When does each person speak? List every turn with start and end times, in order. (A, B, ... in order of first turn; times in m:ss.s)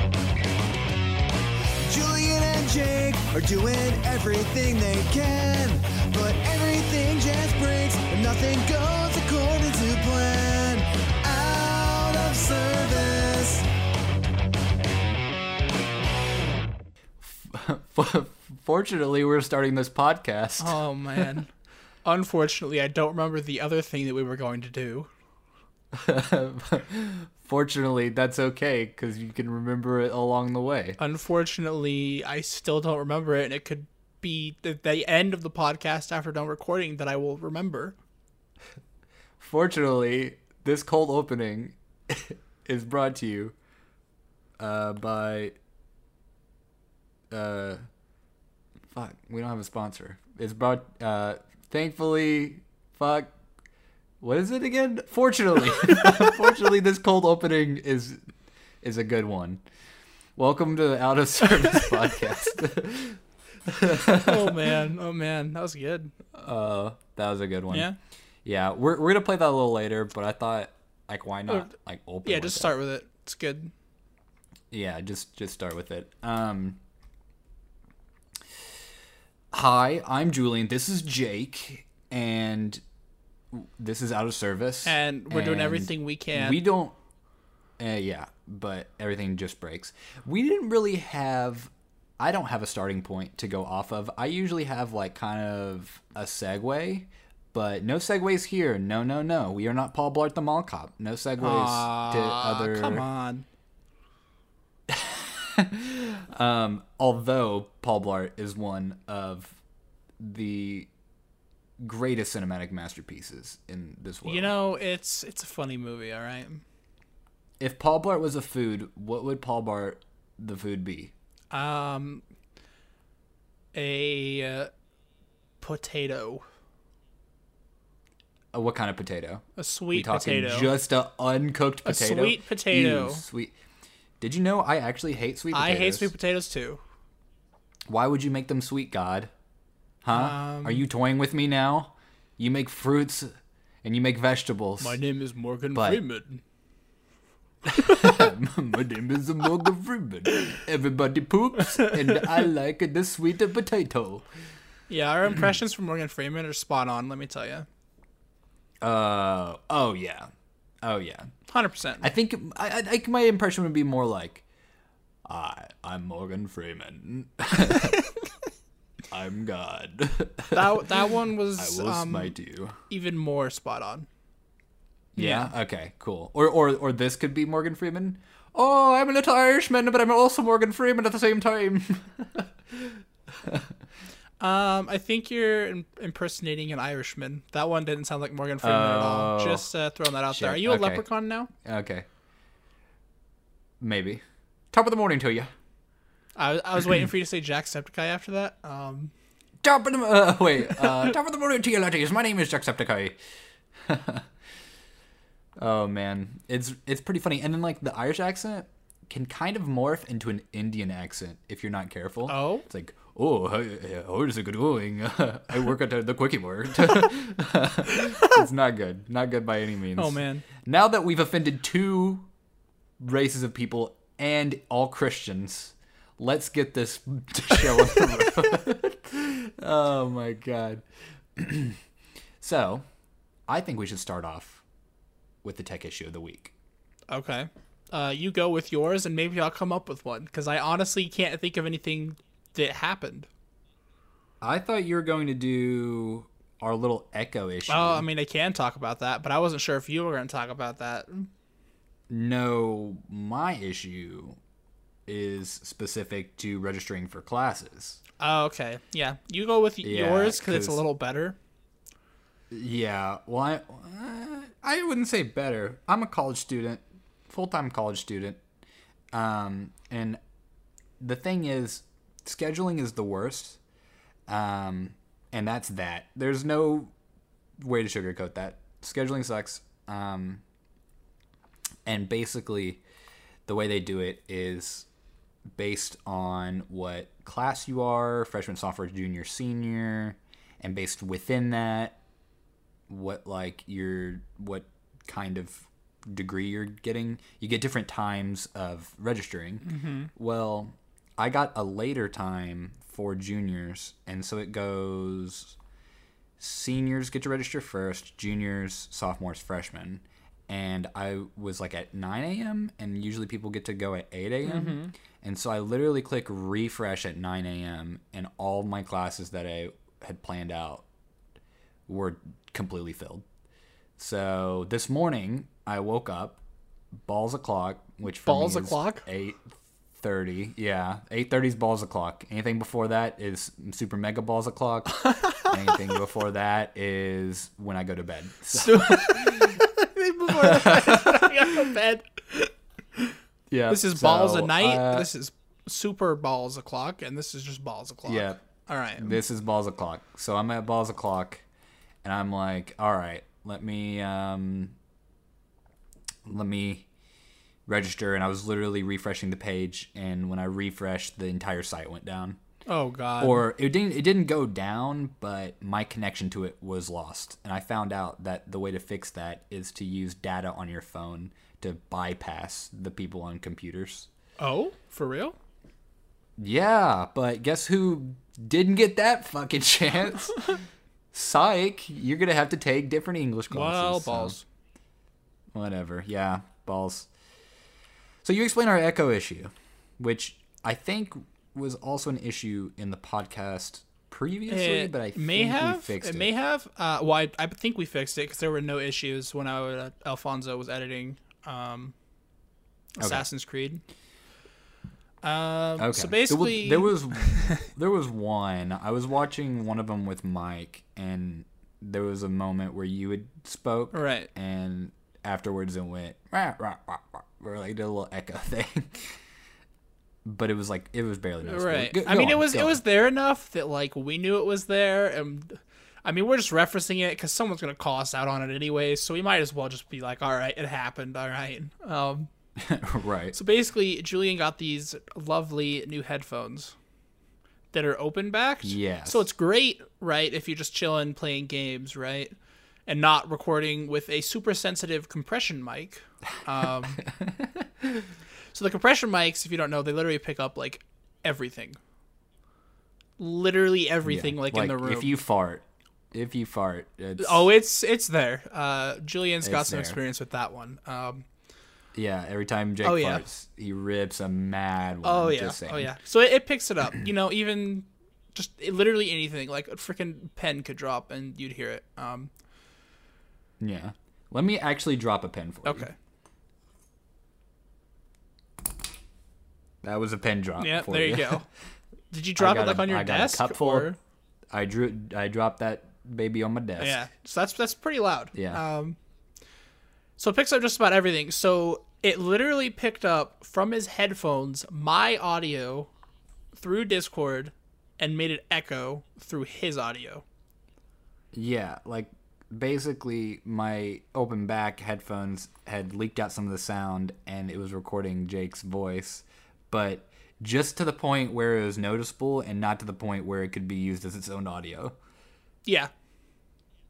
0:01.9-0:13.7 A
0:17.2-0:21.3 B
0:20.6-0:21.5 C
0:22.0-0:25.1 C
0:25.9-0:31.0 B
0:31.0-0:38.0 C
0:39.4-0:43.6 B
0:44.6-0:45.6 B
0:47.3-0:47.8 B
0:48.9-0:53.3 B
0:54.2-0:58.2 B
0:58.8-0:59.6 B
1:00.4-1:04.8 B
1:04.1-1:06.2 C
1:06.4-1:07.9 B
1:07.7-1:08.0 C
1:08.4-1:12.8 B
1:12.2-1:13.7 C
1:14.7-1:16.8 B
1:19.5-1:22.8 B
1:23.5-1:27.0 B
1:24.8-1:26.6 C
1:27.8-1:43.1 B
1:41.4-1:43.5 C
1:44.9-1:49.6 B
1:50.2-1:50.9 B
1:51.8-1:54.5 B
1:54.2-1:56.6 C
1:57.6-2:01.1 B
2:01.5-2:02.2 C
2:03.7-2:04.7 C
2:05.6-2:06.4 C
2:08.5-2:13.5 B
2:09.6-2:10.7 C
2:11.8-2:13.2 C
2:14.2-2:16.1 B
2:15.5-2:16.8 C
2:17.9-2:19.3 B
2:20.0-2:23.3 B
2:20.1-2:20.8 C
2:23.8-2:25.0 B
2:24.8-2:26.4 C
2:25.7-2:26.0 B
2:27.7-2:34.3 B
2:27.9-2:28.2 C
2:31.8-2:32.2 C
2:34.9-2:37.7 C
2:38.8-2:40.3 B
2:40.8-2:41.3 B
2:41.5-2:42.1 C
2:42.0-2:44.4 B
2:45.3-2:48.0 B
2:49.1-2:50.9 B
2:50.5-2:52.4 C
2:51.6-2:52.8 B
2:52.9-2:54.1 C
2:55.1-3:03.7 B
2:55.2-2:55.5 C
3:04.4-3:11.5 C
3:08.6-3:09.7 B
3:10.3-3:11.0 B
3:11.6-3:12.1 B
3:13.8-3:15.5 B
3:16.4-3:19.1 C
3:19.6-3:23.2 B
3:23.8-3:24.3 B
3:25.6-3:42.3 B
3:32.3-3:32.6 C
3:40.0-3:40.5 C
3:43.0-3:50.8 B
3:51.4-3:51.8 B
3:52.4-3:52.8 B
3:53.5-3:54.6 B
3:55.4-3:56.5 B
3:57.1-4:03.3 C
4:04.4-4:08.1 B
4:07.7-4:11.3 C
4:12.1-4:14.4 B
4:15.1-4:18.0 B
4:18.2-4:21.4 C
4:19.8-4:20.8 B
4:22.5-4:28.4 B
4:29.1-4:30.2 B
4:31.0-4:33.6 B
4:34.3-4:36.9 B
4:37.6-4:40.4 B
4:41.9-4:42.8 B
4:43.5-4:44.9 B
4:45.6-4:52.0 B
4:52.9-5:05.6 B
4:59.7-5:00.1 C
5:06.4-5:20.8 B
5:14.4-5:14.9 C
5:21.9-5:23.3 B
5:24.0-5:26.4 B
5:27.0-5:39.6 B
5:28.3-5:29.0 C
5:34.9-5:36.0 C
5:38.5-5:43.2 C
5:40.3-5:41.8 B
5:43.5-5:45.1 B
5:43.7-5:49.2 C
5:48.0-5:48.4 B
5:49.0-5:51.4 B
5:52.0-5:54.8 B
5:56.2-5:56.9 B
5:57.7-6:02.4 B
6:02.7-6:03.4 C
6:03.2-6:14.1 B
6:14.4-6:15.4 C
6:16.4-6:20.4 B
6:21.1-6:24.4 B
6:23.5-6:24.4 C
6:25.5-6:27.1 B
6:28.2-6:36.3 B
6:34.5-6:41.9 C
6:43.0-6:43.8 C
6:43.0-6:43.2 B
6:45.2-6:47.7 C
6:45.8-6:59.2 B
6:53.9-6:54.3 C
7:00.2-7:02.8 B
7:01.4-7:12.3 C
7:12.6-7:13.4 B
7:13.3-7:16.8 C
7:17.7-7:22.3 C
7:18.6-7:19.3 B
7:22.9-7:27.0 C
7:27.0-7:28.1 B
7:28.5-7:31.8 C
7:33.2-7:35.1 C
7:34.0-7:37.5 B
7:37.2-7:41.2 C
7:39.4-7:40.0 B
7:42.0-7:45.9 B
7:42.8-7:43.2 C
7:45.0-7:52.3 C
7:53.6-7:55.9 B
7:55.6-7:55.9 C
7:59.8-8:01.4 B
8:00.6-8:01.5 C
8:02.1-8:04.0 C
8:02.4-8:03.9 B
8:04.5-8:07.0 B
8:06.8-8:09.0 C
8:08.4-8:08.6 B
8:10.2-8:15.9 C
8:16.6-8:20.2 C
8:21.3-8:35.0 B
8:35.6-8:35.9 C